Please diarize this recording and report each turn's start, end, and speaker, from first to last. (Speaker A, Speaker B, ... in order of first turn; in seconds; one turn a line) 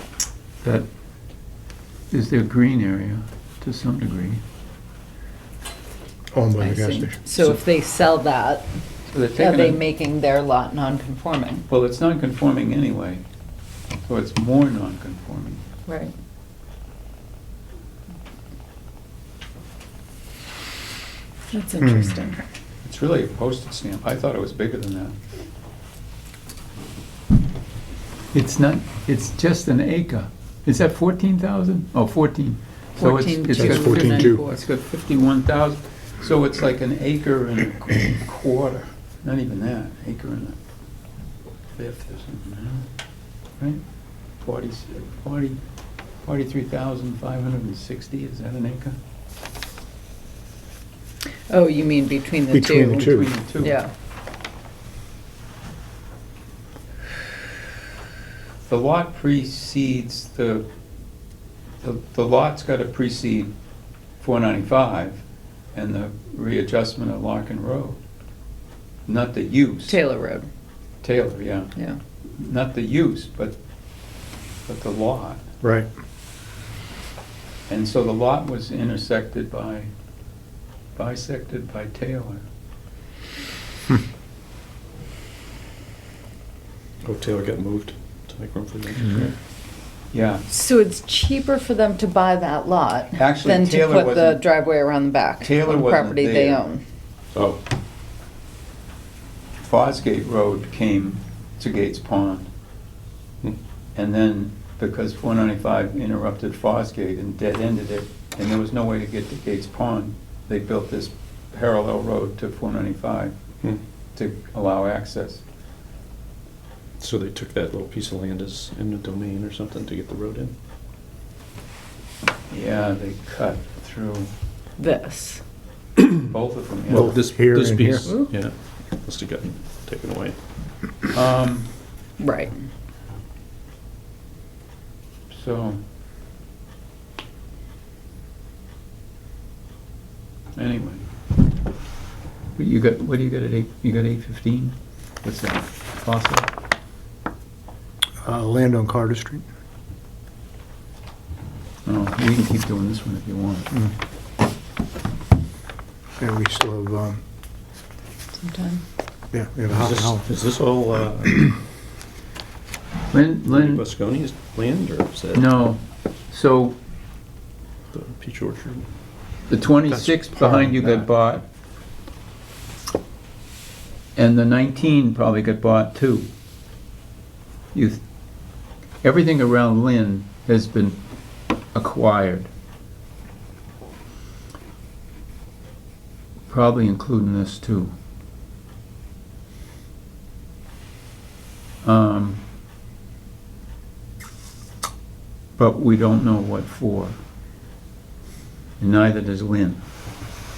Speaker A: 2.1-4.4
Speaker B: 6.3-7.3
Speaker C: 6.6-8.7
Speaker A: 9.1-9.8
Speaker C: 9.3-11.7
Speaker A: 11.7-13.2
Speaker A: 14.0-15.6
Speaker C: 15.9-16.1
Speaker C: 21.5-22.4
Speaker B: 21.8-22.3
Speaker A: 22.8-25.2
Speaker A: 28.3-40.6
Speaker C: 33.0-34.6
Speaker B: 33.5-34.5
Speaker A: 41.8-42.9
Speaker A: 44.4-45.6
Speaker A: 46.2-49.0
Speaker C: 51.5-53.1
Speaker B: 52.5-53.3
Speaker A: 52.9-53.8
Speaker C: 53.6-53.9
Speaker A: 58.6-60.7
Speaker A: 61.8-63.5
Speaker A: 64.2-65.2
Speaker A: 65.7-68.0
Speaker A: 69.1-70.0
Speaker C: 69.9-70.5
Speaker A: 71.0-71.7
Speaker A: 72.4-73.6
Speaker A: 74.7-75.4
Speaker B: 75.6-75.9
Speaker A: 77.7-79.9
Speaker A: 81.0-82.5
Speaker D: 87.0-89.3
Speaker A: 90.1-90.5
Speaker C: 90.5-96.8
Speaker A: 93.2-94.5
Speaker A: 95.4-96.6
Speaker D: 97.3-97.6
Speaker A: 99.6-102.5
Speaker A: 104.0-113.3
Speaker A: 114.2-115.4
Speaker D: 117.0-120.5
Speaker A: 122.5-124.3
Speaker C: 124.8-125.4
Speaker A: 126.3-127.2
Speaker B: 126.9-128.1
Speaker D: 126.9-130.4
Speaker C: 128.0-128.3
Speaker A: 131.1-131.7
Speaker C: 132.2-132.6
Speaker A: 135.3-135.8
Speaker A: 140.6-141.1
Speaker A: 142.6-146.5
Speaker B: 148.2-149.4
Speaker A: 151.9-153.7
Speaker B: 156.2-157.2
Speaker C: 158.4-158.8
Speaker B: 159.3-160.3
Speaker D: 159.7-161.6
Speaker A: 163.1-163.8
Speaker D: 163.4-165.6
Speaker A: 165.3-166.8
Speaker D: 167.9-168.9
Speaker A: 169.5-171.4
Speaker B: 169.9-171.1
Speaker A: 174.2-176.3
Speaker A: 177.7-178.0
Speaker A: 179.0-181.0
Speaker A: 181.7-182.5
Speaker A: 186.5-187.9
Speaker A: 191.8-192.4
Speaker A: 195.6-197.2
Speaker A: 198.8-199.8